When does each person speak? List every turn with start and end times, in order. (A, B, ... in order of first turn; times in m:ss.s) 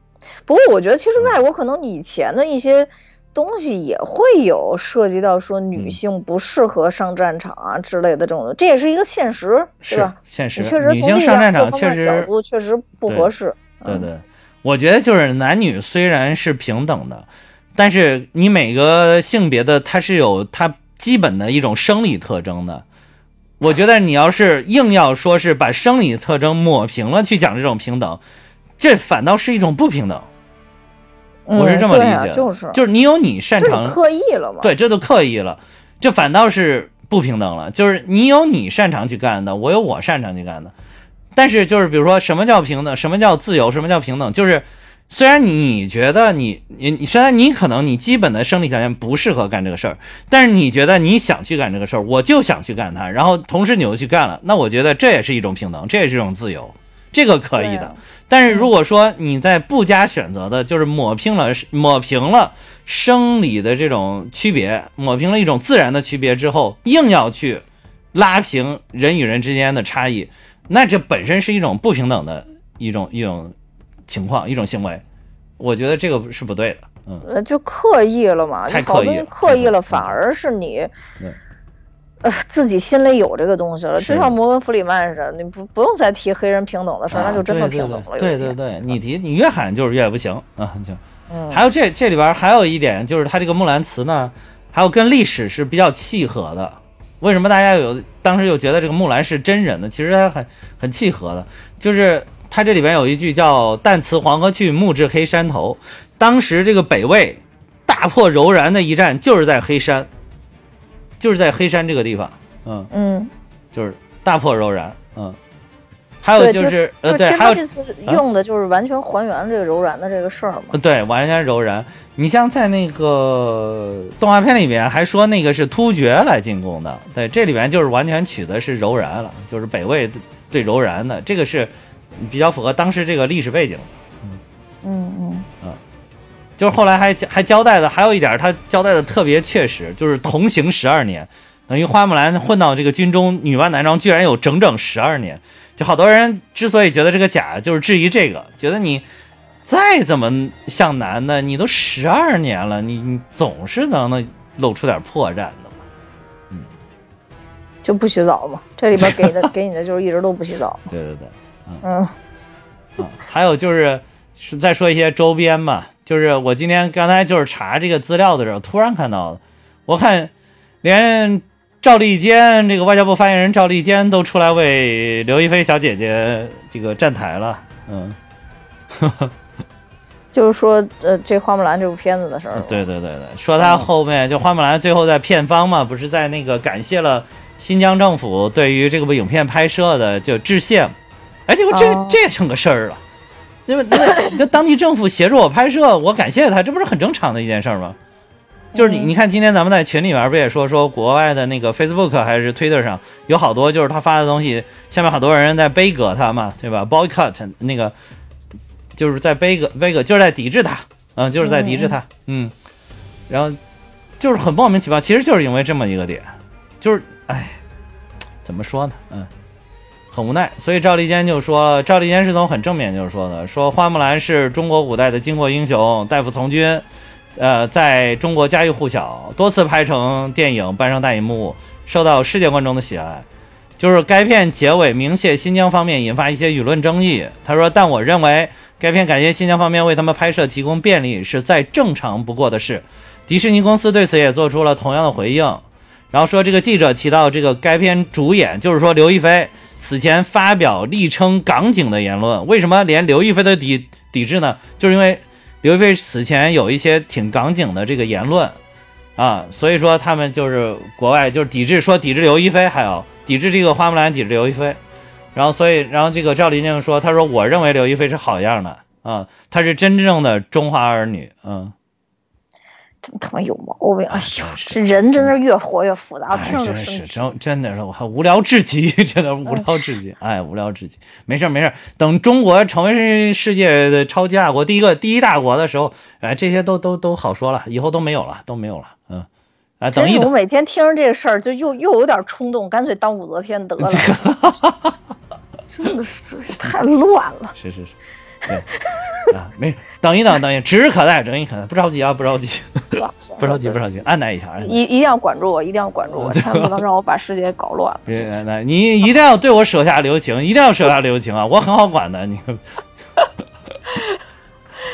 0:00.4-0:14.1 A
0:09.8-0:12.3 B
0:13.8-0:22.8 B
0:23.6-0:28.2 B
0:28.8-0:30.3 B
0:31.5-0:32.8 A
0:31.6-0:34.0 B
0:33.6-0:34.7 A
0:34.6-0:40.7 B
0:41.3-1:13.5 B
0:57.6-0:58.7 A
1:14.1-1:15.0 B
1:15.6-1:17.2 B
1:17.2-1:20.9 A
1:18.7-1:20.2 B
1:22.2-1:28.6 A
1:24.0-1:24.4 B
1:27.1-1:50.1 B
1:31.3-1:31.6 A
1:51.2-1:52.9 B
1:52.9-1:53.3 A
1:53.7-1:55.4 B
1:56.2-1:58.2 B
1:56.4-2:00.8 A
2:00.7-2:14.4 B
2:14.8-2:15.5 A
2:16.6-2:29.0 B
2:29.6-2:35.8 B
2:37.8-2:40.9 A
2:39.0-2:39.5 B
2:40.9-2:41.8 B
2:41.8-2:42.1 A
2:43.0-2:50.3 B
2:50.8-2:58.2 B
2:58.9-2:59.3 B
3:00.3-3:02.8 A
3:02.5-3:10.9 B
3:11.5-3:13.0 B
3:11.7-3:12.2 A
3:13.7-3:18.0 B
3:18.7-3:19.1 A
3:18.7-3:27.9 B
3:28.9-3:32.5 B
3:31.4-3:32.0 A
3:33.3-3:33.6 B
3:34.2-3:37.6 B
3:38.4-3:39.3 B
3:40.1-3:46.8 B
3:47.4-3:53.2 B
3:53.8-4:18.6 B
4:19.2-4:24.8 B
4:25.3-4:31.7 B
4:33.0-4:37.3 A
4:34.1-4:35.3 B
4:36.3-4:49.3 B
4:39.4-4:39.9 A
4:49.8-4:50.3 B
4:49.9-4:54.2 A
4:53.8-4:55.0 B
4:55.7-4:57.5 A
4:57.5-4:57.9 B
4:58.9-4:59.3 A
4:59.3-5:04.8 B
5:03.0-5:03.8 A
5:04.6-5:08.3 A
5:06.1-5:06.8 B
5:08.0-5:12.6 B